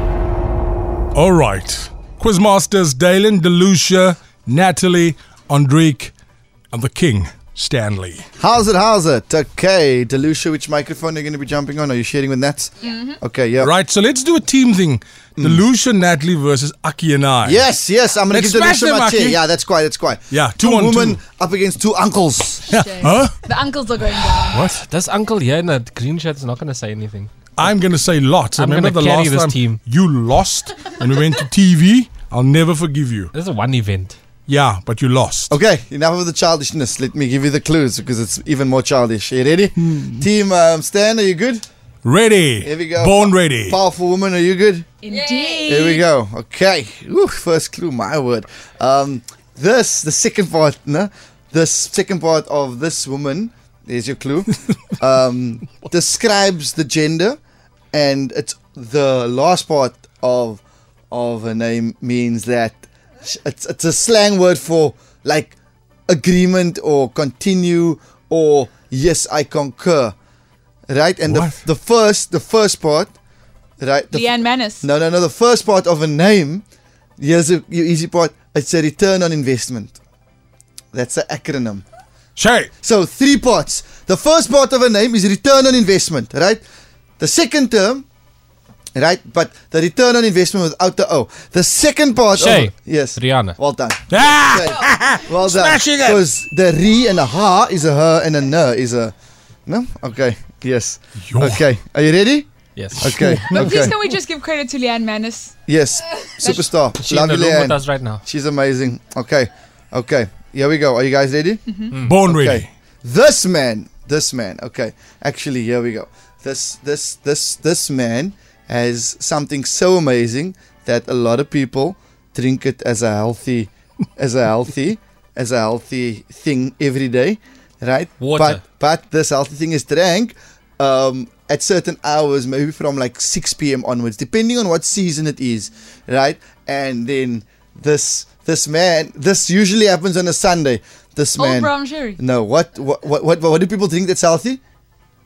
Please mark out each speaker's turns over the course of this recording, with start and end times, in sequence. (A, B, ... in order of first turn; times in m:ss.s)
0:01.1-0:06.1 A
0:06.7-0:08.2 A
0:08.4-0:13.7 B
0:12.8-0:13.2 C
0:13.6-0:17.6 A
0:15.4-0:15.6 B
0:17.4-0:22.7 B
0:18.3-0:19.4 A
0:20.3-0:21.2 A
0:22.7-0:24.6 C
0:22.7-0:23.4 A
0:24.5-0:24.8 A
0:24.8-0:27.3 D
0:27.6-0:33.3 A
0:28.6-0:29.8 D
0:33.3-0:34.2 D
0:34.5-0:35.6 A
0:35.5-0:41.6 B
0:39.8-0:40.2 A
0:42.0-0:43.8 A
0:42.6-0:44.9 B
0:45.0-0:46.0 C
0:45.6-0:57.4 B
0:57.9-1:05.6 B
1:06.1-1:10.2 B
1:10.9-1:13.1 B
1:11.3-1:11.6 A
1:13.8-1:16.6 B
1:14.1-1:14.9 C
1:17.2-1:20.0 B
1:20.9-1:21.8 B
1:22.4-1:22.7 A
1:22.8-1:26.6 B
1:27.2-1:28.0 B
1:29.0-1:39.1 B
1:32.4-1:33.6 D
1:34.1-1:36.2 A
1:39.7-1:42.5 B
1:41.2-1:41.6 A
1:42.8-1:43.3 D
1:43.0-1:43.9 A
1:43.0-1:44.0 B
1:43.5-1:45.6 C
1:45.7-1:51.6 B
1:46.4-1:46.8 C
1:47.0-1:48.2 D
1:51.7-1:51.9 C
1:52.0-1:52.7 A
1:52.3-2:24.6 B
2:08.2-2:08.6 D
2:21.4-2:22.2 C